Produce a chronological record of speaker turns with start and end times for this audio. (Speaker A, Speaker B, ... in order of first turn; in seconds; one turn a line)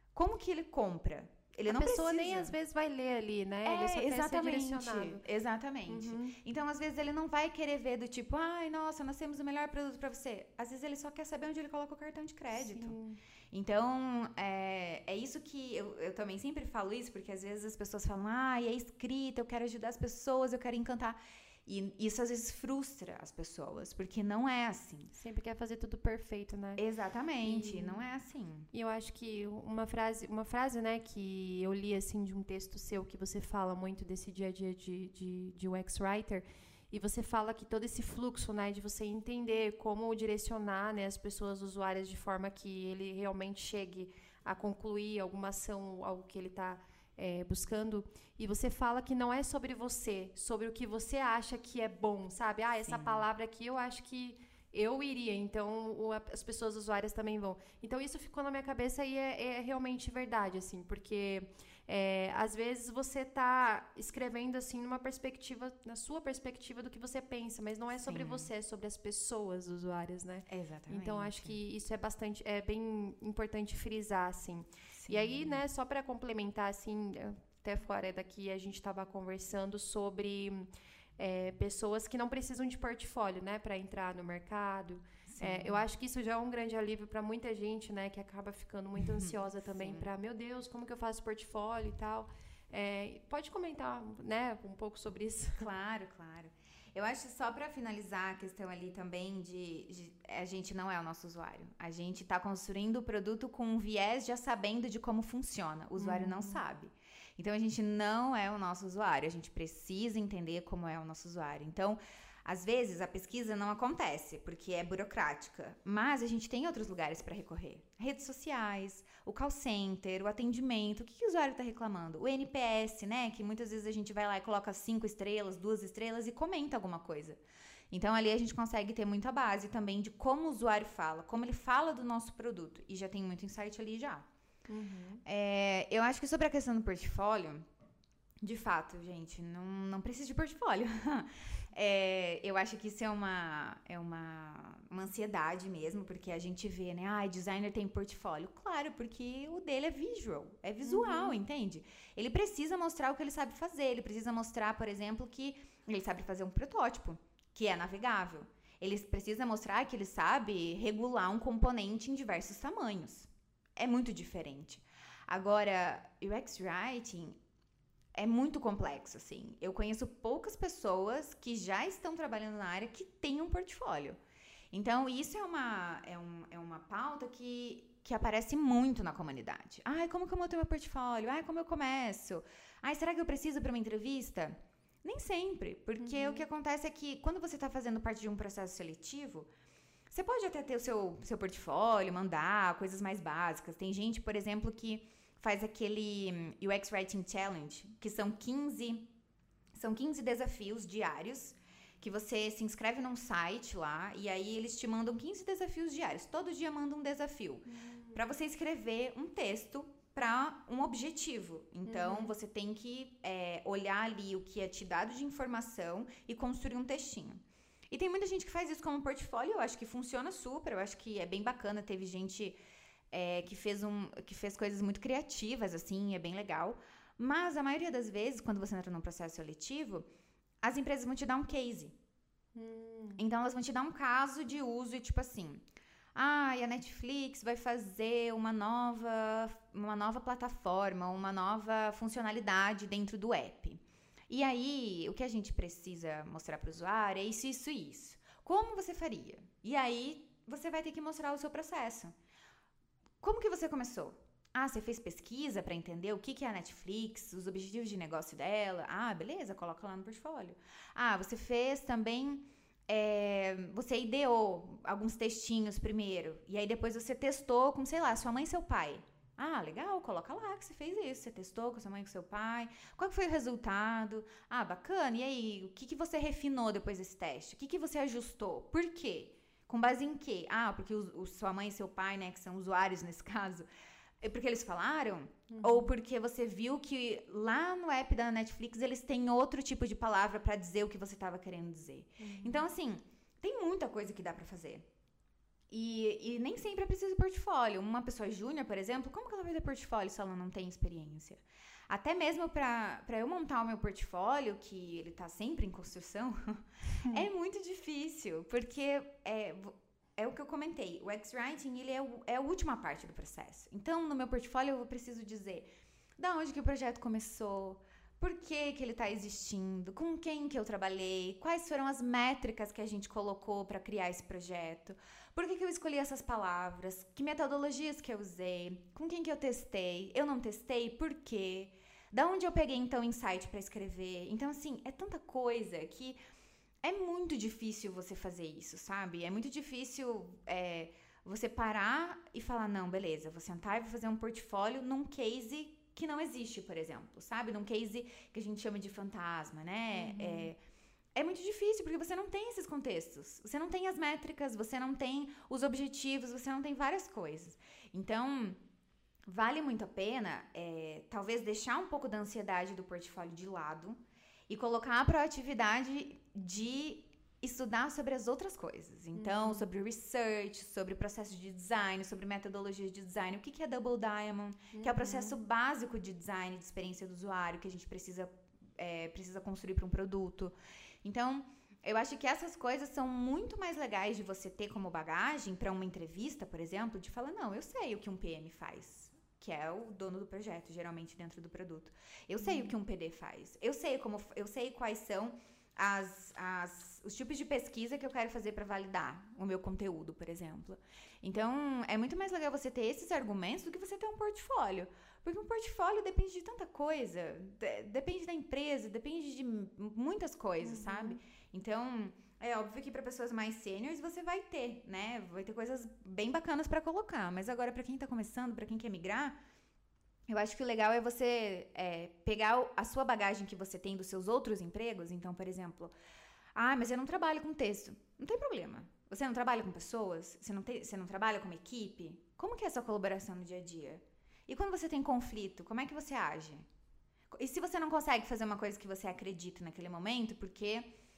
Speaker A: 0.1-2.5
Speaker B: 1.7-5.2
Speaker A: 3.6-13.0
Speaker B: 5.9-6.4
Speaker B: 12.5-13.2
Speaker A: 13.5-25.1
Speaker B: 25.1-26.8
Speaker A: 26.8-28.7
Speaker B: 27.4-28.0
Speaker B: 28.7-95.7
Speaker A: 52.8-53.2
Speaker A: 68.0-68.5
Speaker A: 70.5-71.6
Speaker A: 74.9-75.6
Speaker A: 85.3-85.8
Speaker A: 89.0-90.1
Speaker A: 95.6-134.2
Speaker B: 106.0-106.6
Speaker B: 134.7-135.2
Speaker A: 135.2-137.7
Speaker A: 138.4-167.4
Speaker B: 150.8-151.4
Speaker A: 168.1-174.2
Speaker A: 174.7-189.5
Speaker B: 186.0-186.5
Speaker A: 190.1-199.1
Speaker A: 199.7-222.6
Speaker B: 207.7-208.2
Speaker B: 211.9-212.3
Speaker A: 223.1-230.1
Speaker A: 230.6-231.9
Speaker B: 232.5-233.2
Speaker A: 233.2-235.6
Speaker A: 236.1-252.1
Speaker A: 253.2-283.7
Speaker A: 284.2-294.9
Speaker B: 285.5-285.9
Speaker B: 292.2-292.7
Speaker A: 295.7-336.2
Speaker A: 336.8-350.6
Speaker B: 349.9-350.5
Speaker A: 351.1-358.6
Speaker A: 359.2-419.4
Speaker B: 369.1-369.7
Speaker B: 374.7-375.4
Speaker B: 392.4-392.7
Speaker B: 410.6-411.2
Speaker A: 420.3-425.9
Speaker A: 426.5-436.6
Speaker A: 437.3-440.9